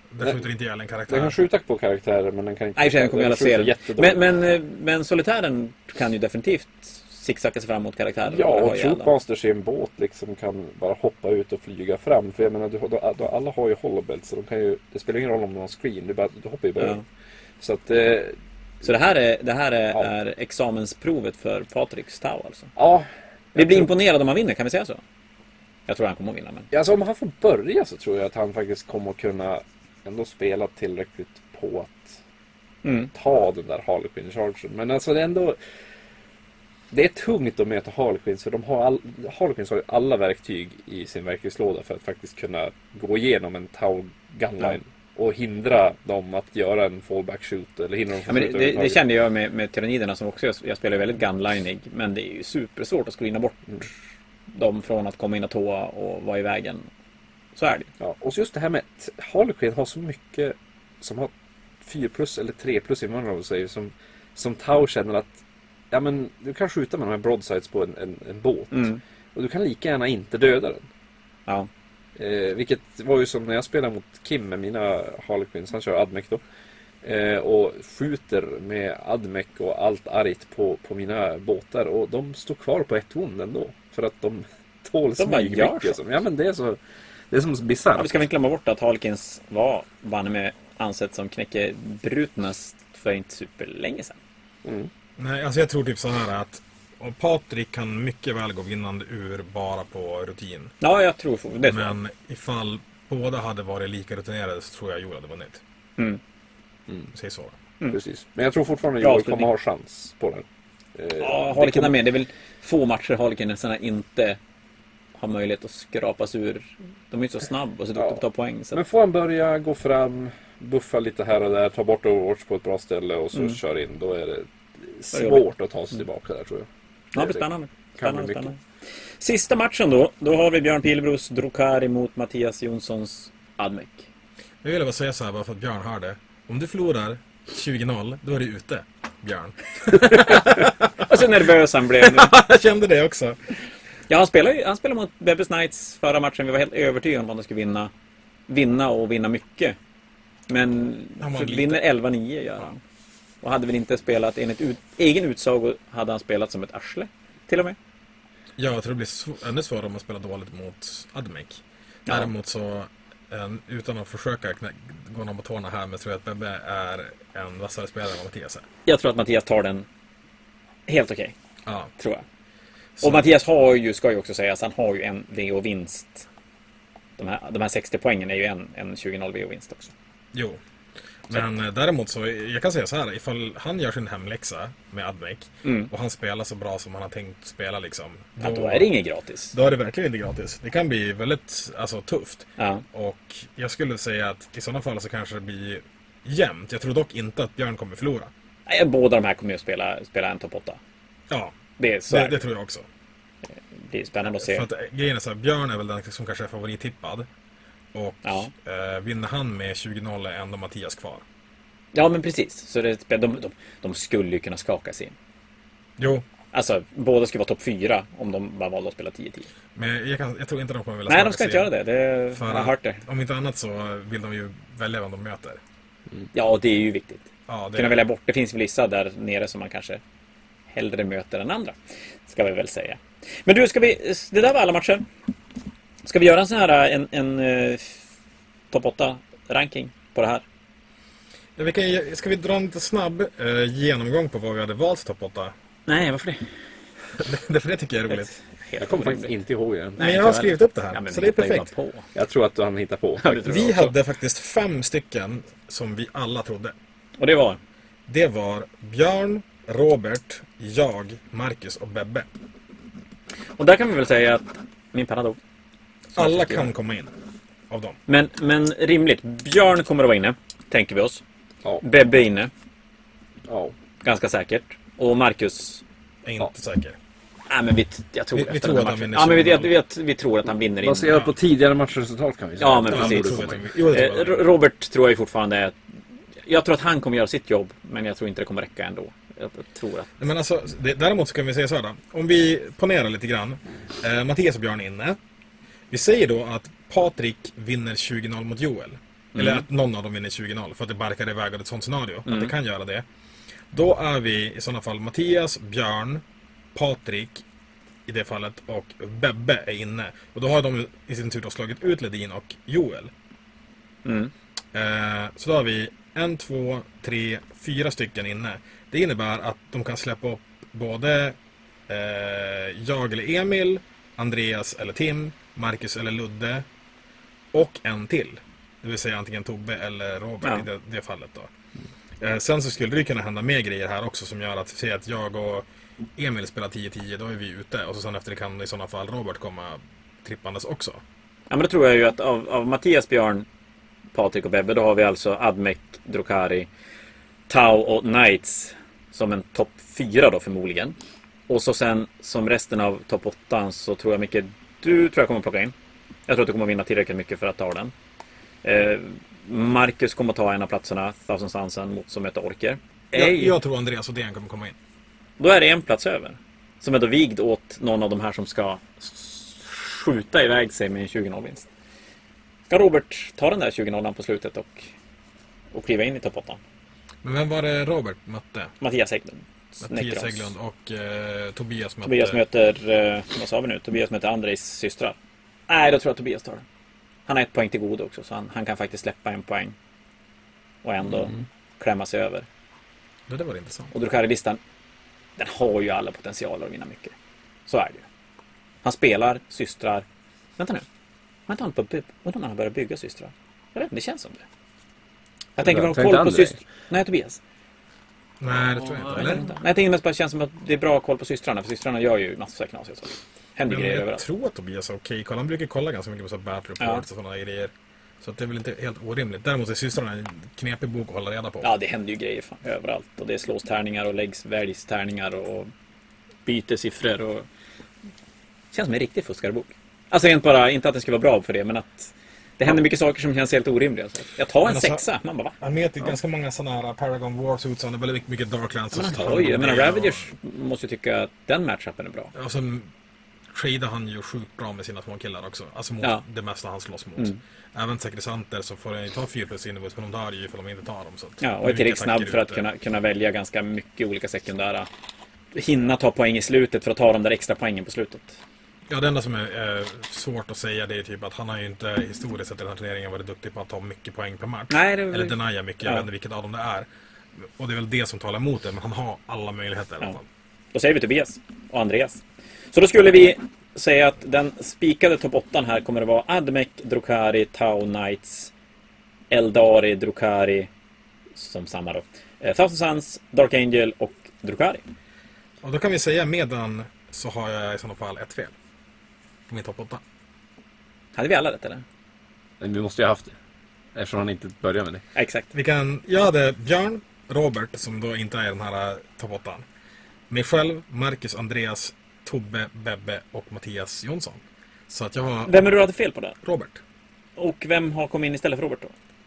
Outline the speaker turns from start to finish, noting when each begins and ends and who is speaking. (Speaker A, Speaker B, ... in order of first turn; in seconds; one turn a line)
Speaker A: 0.1-1.4
Speaker B: 1.1-4.3
Speaker C: 2.8-9.1
Speaker B: 8.2-17.0
Speaker C: 16.8-17.0
Speaker B: 17.6-18.4
Speaker C: 18.8-22.7
Speaker B: 22.8-24.0
Speaker C: 23.6-25.0
Speaker C: 25.9-26.7
Speaker B: 26.7-32.1
Speaker C: 32.8-33.1
Speaker B: 33.1-35.6
Speaker B: 36.9-49.0
Speaker C: 48.3-53.9
Speaker C: 54.5-56.9
Speaker C: 57.6-57.9
Speaker B: 58.0-61.3
Speaker B: 61.8-65.4
Speaker B: 65.9-70.9
Speaker C: 68.7-69.0
Speaker B: 72.2-76.4
Speaker B: 77.0-86.8
Speaker C: 85.2-86.0
Speaker B: 87.3-88.2
Speaker C: 88.0-94.2
Speaker B: 94.6-94.9
Speaker A: 95.2-100.7
Speaker C: 100.8-102.0
Speaker A: 101.6-105.6
Speaker A: 107.1-107.6
Speaker B: 107.9-112.0
Speaker C: 109.0-109.5
Speaker C: 111.2-114.4
Speaker C: 115.1-118.8
Speaker B: 118.0-118.2
Speaker B: 118.7-127.5
Speaker C: 125.1-125.4
Speaker C: 127.1-128.6
Speaker B: 128.0-128.5
Speaker C: 129.2-134.1
Speaker A: 134.6-143.4
Speaker C: 139.9-142.3
Speaker C: 144.1-147.9
Speaker C: 148.5-149.8
Speaker C: 150.5-152.8
Speaker A: 151.2-151.8
Speaker C: 153.4-157.8
Speaker A: 158.6-168.7
Speaker C: 168.9-169.9
Speaker C: 170.9-171.3
Speaker A: 171.7-171.9
Speaker C: 172.0-172.2
Speaker A: 173.0-173.3
Speaker C: 173.0-176.3
Speaker C: 177.2-179.9
Speaker A: 180.3-180.6
Speaker A: 181.3-188.9
Speaker C: 185.6-185.9
Speaker C: 188.4-189.6
Speaker A: 189.5-198.3
Speaker C: 192.6-192.8
Speaker C: 198.7-200.8
Speaker A: 201.3-201.6
Speaker C: 201.8-202.4
Speaker A: 202.1-202.9
Speaker C: 203.7-204.7
Speaker A: 204.3-207.3
Speaker A: 207.9-211.2
Speaker C: 208.2-208.5
Speaker C: 211.9-215.1
Speaker A: 216.0-216.2
Speaker C: 216.5-219.5
Speaker A: 219.8-221.7
Speaker C: 221.1-223.0
Speaker A: 222.3-225.6
Speaker C: 226.3-230.0
Speaker A: 227.5-228.1
Speaker C: 230.7-235.1
Speaker C: 236.0-238.0
Speaker C: 238.7-240.4
Speaker A: 241.6-245.5
Speaker C: 245.9-246.6
Speaker A: 247.2-248.3
Speaker C: 248.1-249.4
Speaker B: 248.8-250.0
Speaker C: 250.0-252.1
Speaker A: 250.0-251.7
Speaker B: 252.1-253.4
Speaker C: 253.2-253.9
Speaker A: 253.5-256.8
Speaker C: 257.2-257.6
Speaker A: 258.1-262.3
Speaker C: 263.6-265.4
Speaker A: 266.1-267.1
Speaker C: 266.2-266.7
Speaker A: 267.7-268.0
Speaker C: 268.1-271.2
Speaker C: 271.8-272.5
Speaker B: 273.5-273.8
Speaker C: 274.0-275.8
Speaker A: 276.2-277.0
Speaker C: 277.5-281.2
Speaker A: 278.3-279.7
Speaker B: 280.8-283.6
Speaker A: 281.1-281.3
Speaker C: 282.6-285.8
Speaker A: 282.8-284.5
Speaker C: 286.5-290.1
Speaker A: 290.2-295.2
Speaker A: 295.9-303.1
Speaker C: 299.3-299.7
Speaker C: 302.3-302.5
Speaker A: 303.7-306.2
Speaker A: 306.7-307.4
Speaker A: 308.1-313.1
Speaker C: 314.1-314.3
Speaker A: 314.7-321.4
Speaker A: 321.9-326.7
Speaker A: 327.5-331.5
Speaker A: 332.2-341.0
Speaker C: 341.5-343.5
Speaker C: 344.1-346.7
Speaker C: 347.5-351.0
Speaker C: 351.5-355.7
Speaker C: 356.3-357.9
Speaker C: 358.6-363.6
Speaker A: 363.1-364.8
Speaker C: 365.4-371.7
Speaker C: 372.7-374.9
Speaker C: 375.7-376.6
Speaker A: 377.2-378.7
Speaker C: 378.8-380.5
Speaker A: 379.8-382.4
Speaker C: 382.1-385.2
Speaker C: 385.7-386.6
Speaker C: 387.3-389.8
Speaker C: 390.8-392.5
Speaker A: 393.3-393.9
Speaker C: 393.9-394.6
Speaker C: 395.4-397.1
Speaker C: 397.7-398.1
Speaker C: 398.8-400.1
Speaker C: 400.6-400.9
Speaker C: 401.5-404.4
Speaker C: 405.6-407.4
Speaker B: 405.6-406.6
Speaker A: 408.4-409.5
Speaker C: 408.9-414.2
Speaker A: 413.7-421.7
Speaker C: 421.6-425.7
Speaker C: 426.5-427.5
Speaker C: 428.7-435.6
Speaker A: 434.6-435.1
Speaker A: 435.6-440.3
Speaker C: 438.9-442.3
Speaker A: 442.3-442.9
Speaker A: 443.5-452.6
Speaker C: 451.4-454.9
Speaker C: 455.5-458.4
Speaker A: 458.9-470.3
Speaker C: 464.7-466.1
Speaker C: 470.7-478.5
Speaker C: 479.3-480.7
Speaker C: 481.4-484.8
Speaker A: 485.6-488.5
Speaker A: 489.5-490.0
Speaker C: 491.2-491.8
Speaker B: 492.6-493.4
Speaker B: 493.9-495.0
Speaker C: 495.1-495.5
Speaker A: 495.5-499.7
Speaker A: 500.3-505.7
Speaker C: 505.5-506.4
Speaker A: 506.4-506.8
Speaker C: 507.4-508.9